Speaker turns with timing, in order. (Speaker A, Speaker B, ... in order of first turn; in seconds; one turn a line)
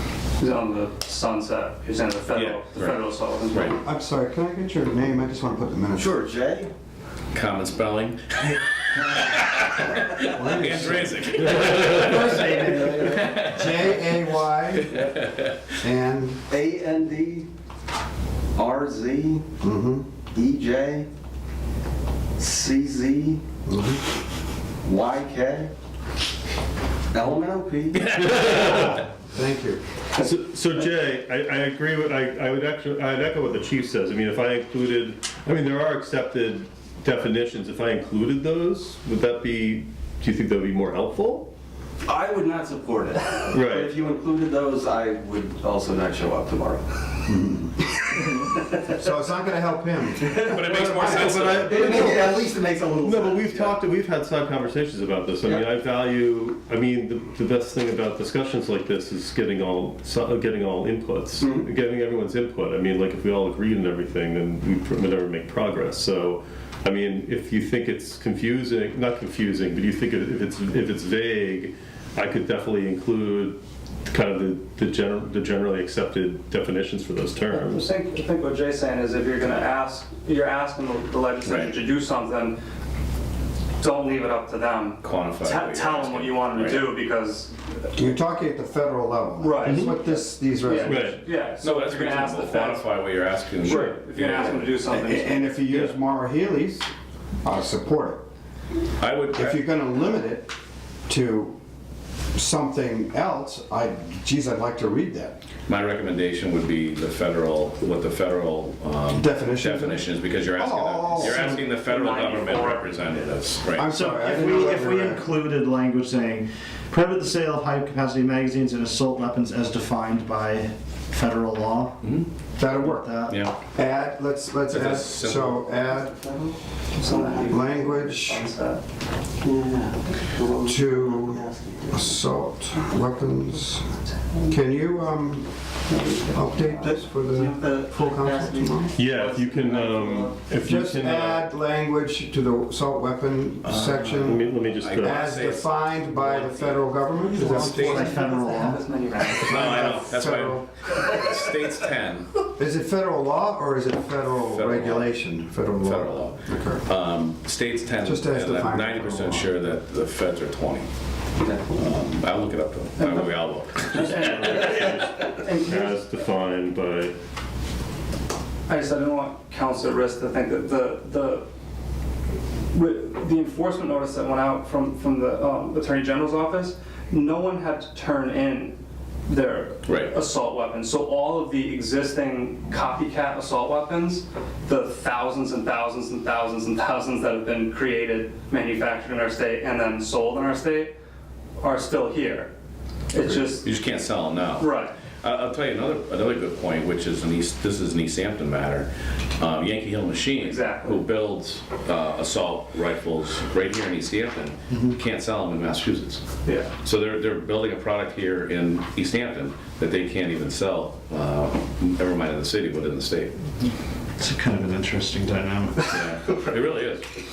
Speaker A: 0.4-3.8
Speaker B: 2.3-3.0
Speaker B: 3.5-3.8
Speaker C: 3.8-6.1
Speaker D: 5.9-6.7
Speaker B: 7.3-14.0
Speaker C: 10.2-11.2
Speaker C: 11.9-14.9
Speaker D: 12.0-13.5
Speaker D: 14.9-15.2
Speaker C: 15.8-16.4
Speaker D: 16.5-17.5
Speaker D: 18.5-19.5
Speaker C: 19.6-20.1
Speaker D: 20.3-21.1
Speaker D: 22.4-23.4
Speaker C: 23.6-24.0
Speaker D: 24.8-25.7
Speaker D: 27.1-28.7
Speaker E: 28.1-28.8
Speaker C: 28.7-29.8
Speaker E: 30.1-41.5
Speaker D: 42.0-47.2
Speaker E: 43.5-43.9
Speaker C: 47.2-48.2
Speaker D: 48.2-49.0
Speaker C: 48.9-51.9
Speaker D: 50.2-53.8
Speaker B: 50.5-52.1
Speaker E: 50.6-77.9
Speaker A: 77.5-82.6
Speaker B: 81.4-81.7
Speaker A: 83.8-87.5
Speaker B: 85.0-86.9
Speaker C: 88.0-91.2
Speaker A: 89.4-93.0
Speaker E: 90.9-91.2
Speaker B: 91.6-94.7
Speaker A: 93.6-95.6
Speaker C: 94.9-96.9
Speaker C: 97.4-98.2
Speaker B: 99.0-99.6
Speaker C: 99.3-100.5
Speaker C: 101.1-101.6
Speaker C: 102.3-105.4
Speaker B: 105.7-113.9
Speaker C: 109.1-111.6
Speaker A: 111.1-112.9
Speaker C: 113.7-115.2
Speaker F: 113.9-122.2
Speaker B: 122.0-122.3
Speaker C: 122.5-123.1
Speaker F: 122.8-123.4
Speaker B: 123.3-123.5
Speaker C: 123.7-126.1
Speaker B: 124.7-125.7
Speaker A: 126.9-128.8
Speaker D: 127.1-127.5
Speaker C: 127.4-128.5
Speaker D: 129.4-132.2
Speaker C: 130.6-133.9
Speaker A: 134.1-134.5
Speaker C: 134.5-135.5
Speaker A: 135.9-136.8
Speaker C: 136.3-138.9
Speaker D: 136.8-140.3
Speaker E: 138.9-141.5
Speaker C: 140.6-148.1
Speaker B: 143.6-148.1
Speaker E: 144.2-145.2
Speaker A: 147.2-150.0
Speaker F: 147.9-148.8
Speaker C: 149.3-150.7
Speaker B: 149.4-152.3
Speaker C: 152.6-156.8
Speaker B: 154.4-155.1
Speaker B: 155.8-160.9
Speaker C: 158.0-159.7
Speaker B: 161.7-164.7
Speaker A: 163.0-166.0
Speaker E: 163.9-167.1
Speaker A: 168.7-171.4
Speaker A: 172.7-190.9
Speaker B: 179.8-180.1
Speaker A: 191.6-192.5
Speaker A: 193.1-193.7
Speaker B: 193.2-206.2
Speaker A: 194.6-194.9
Speaker A: 200.4-201.0
Speaker A: 206.4-206.7
Speaker B: 206.8-213.4
Speaker F: 214.2-216.2
Speaker B: 215.9-217.0